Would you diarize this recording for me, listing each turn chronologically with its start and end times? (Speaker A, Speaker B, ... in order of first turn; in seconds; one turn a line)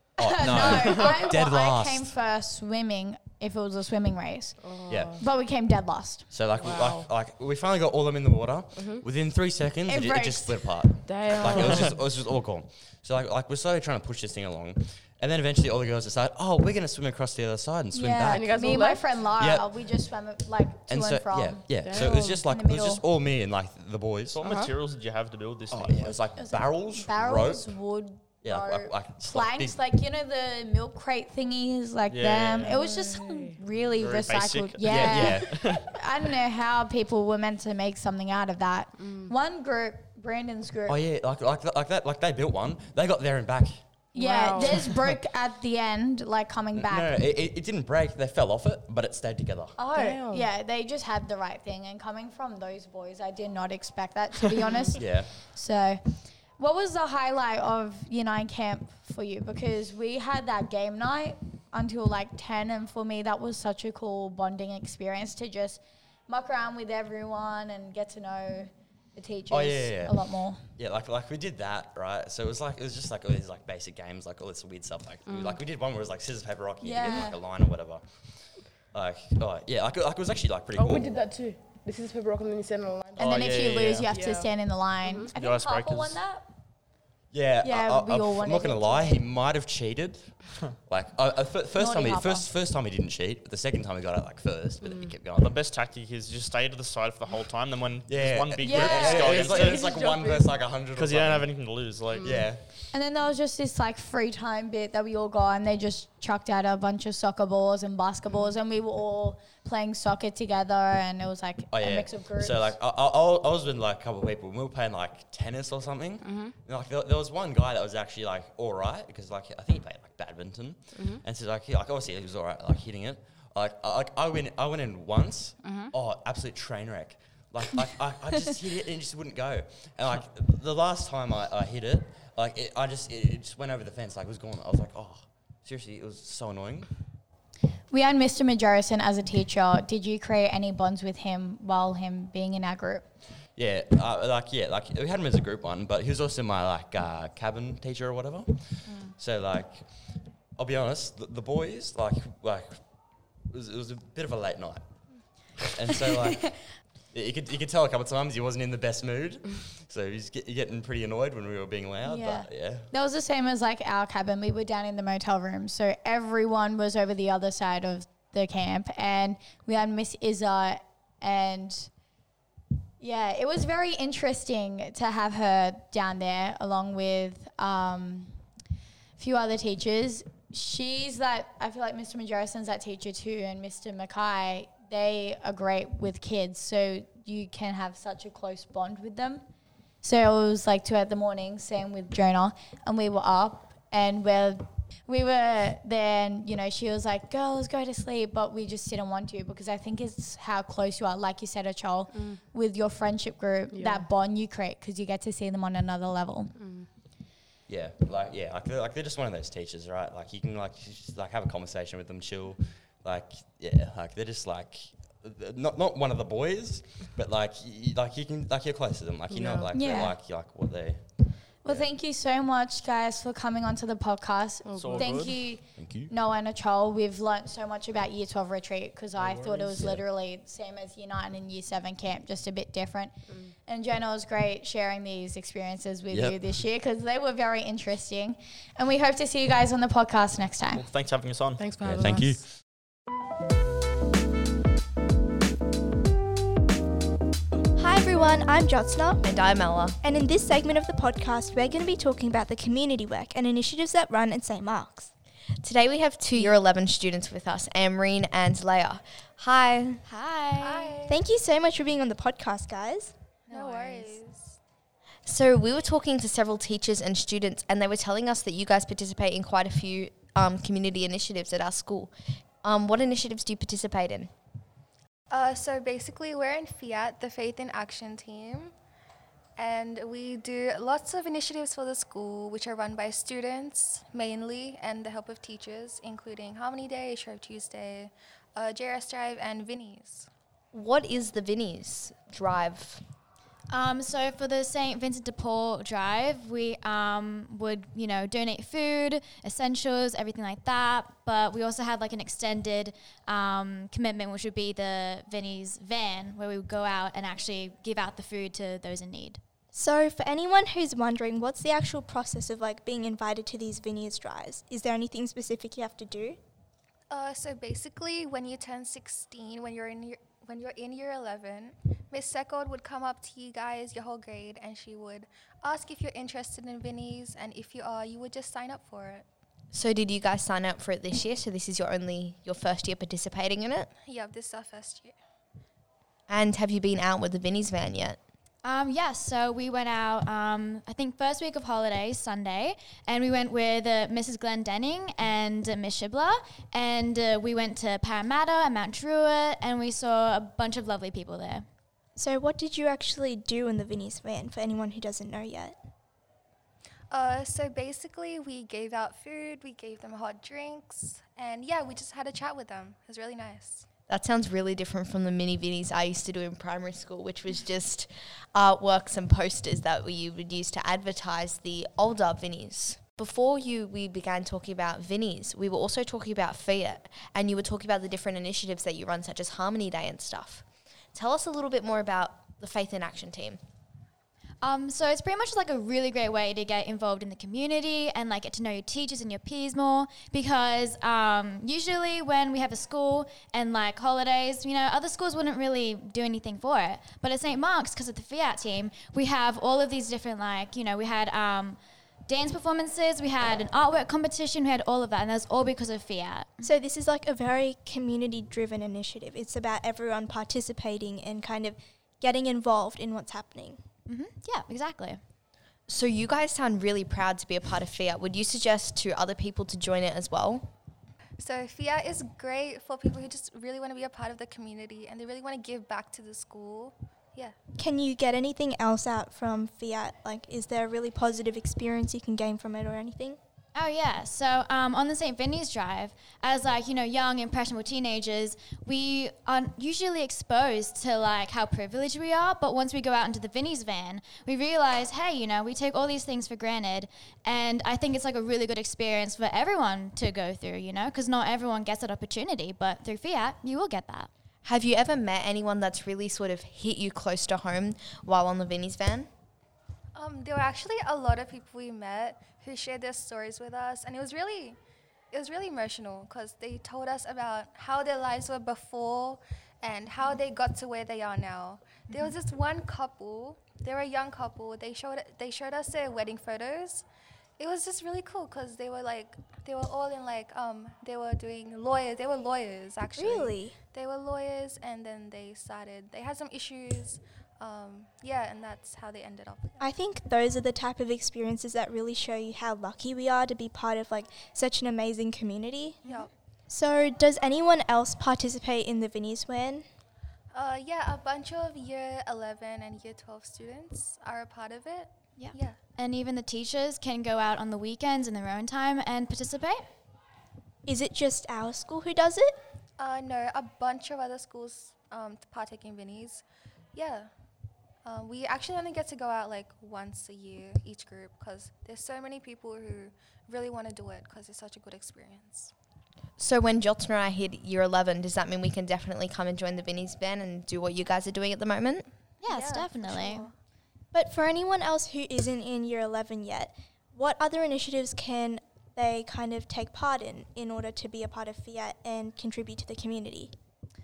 Speaker A: 0.2-6.4
Speaker B: 0.2-2.2
Speaker C: 0.8-1.1
Speaker D: 4.6-5.2
Speaker B: 4.9-5.2
Speaker B: 6.3-20.0
Speaker D: 6.5-7.1
Speaker D: 8.8-9.1
Speaker A: 9.9-10.9
Speaker D: 11.1-12.0
Speaker C: 11.5-11.9
Speaker A: 17.9-23.1
Speaker D: 18.2-19.2
Speaker B: 20.9-24.5
Speaker D: 21.8-22.2
Speaker C: 24.3-26.2
Speaker D: 24.4-24.8
Speaker B: 25.7-27.8
Speaker A: 26.0-41.0
Speaker B: 28.4-29.9
Speaker C: 32.1-32.8
Speaker D: 32.6-33.6
Speaker C: 33.9-35.8
Speaker B: 34.8-35.8
Speaker D: 39.0-39.3
Speaker B: 40.9-44.1
Speaker A: 44.1-47.1
Speaker D: 44.1-44.9
Speaker B: 46.7-49.8
Speaker A: 49.8-70.6
Speaker D: 49.9-50.5
Speaker B: 55.0-55.4
Speaker B: 69.5-81.3
Speaker D: 75.3-75.6
Speaker A: 76.8-77.4
Speaker D: 80.8-85.3
Speaker C: 83.2-84.1
Speaker A: 83.2-86.5
Speaker C: 85.3-86.2
Speaker B: 87.3-95.5
Speaker A: 87.6-89.2
Speaker A: 91.8-92.5
Speaker D: 94.8-95.2
Speaker C: 95.4-100.0
Speaker B: 98.1-102.7
Speaker A: 98.6-100.4
Speaker C: 100.9-102.4
Speaker A: 102.9-112.8
Speaker B: 111.7-137.0
Speaker D: 116.2-116.6
Speaker D: 120.9-121.2
Speaker D: 125.6-125.9
Speaker A: 137.9-143.1
Speaker B: 143.6-162.9
Speaker A: 162.0-171.9
Speaker A: 173.0-178.4
Speaker A: 179.2-189.4
Speaker A: 190.0-206.7
Speaker D: 202.1-202.4
Speaker D: 203.7-204.1
Speaker D: 206.6-206.9
Speaker B: 207.7-221.9
Speaker D: 219.3-219.7
Speaker A: 219.7-220.2
Speaker A: 221.6-240.8
Speaker D: 224.6-225.3
Speaker C: 224.8-225.5
Speaker B: 225.8-226.1
Speaker C: 229.2-229.7
Speaker B: 229.7-230.1
Speaker D: 233.3-233.5
Speaker B: 236.1-236.6
Speaker C: 240.7-241.6
Speaker D: 241.6-242.4
Speaker B: 241.8-242.6
Speaker E: 247.8-249.2
Speaker F: 249.2-250.0
Speaker E: 250.0-255.1
Speaker F: 255.6-260.0
Speaker G: 260.1-261.0
Speaker H: 260.6-261.2
Speaker E: 261.1-263.2
Speaker H: 263.5-264.6
Speaker G: 263.5-264.2
Speaker F: 265.3-274.3
Speaker H: 275.3-278.7
Speaker H: 279.6-290.3
Speaker F: 290.7-293.0
Speaker G: 293.7-309.4
Speaker E: 309.7-316.4
Speaker H: 317.1-329.3
Speaker F: 329.7-333.9
Speaker H: 334.0-335.1
Speaker F: 336.3-338.2
Speaker G: 338.6-351.7
Speaker E: 352.1-355.8
Speaker H: 357.1-363.9
Speaker F: 364.1-383.6
Speaker G: 384.6-406.7
Speaker E: 406.6-413.8
Speaker G: 414.1-415.2
Speaker F: 415.9-420.7
Speaker H: 421.4-427.6
Speaker E: 427.8-433.4
Speaker G: 433.8-454.3
Speaker F: 454.6-459.3
Speaker H: 460.1-464.8
Speaker H: 465.3-477.1
Speaker H: 477.6-489.8
Speaker E: 483.2-483.8
Speaker E: 489.8-496.1
Speaker G: 496.0-496.3
Speaker H: 496.0-496.3
Speaker E: 496.7-499.9
Speaker H: 500.5-505.8
Speaker G: 505.4-509.9
Speaker E: 510.8-512.6
Speaker H: 513.0-517.3
Speaker H: 518.0-525.7
Speaker F: 526.4-532.1
Speaker G: 532.4-533.5
Speaker H: 532.4-533.5
Speaker E: 534.1-543.5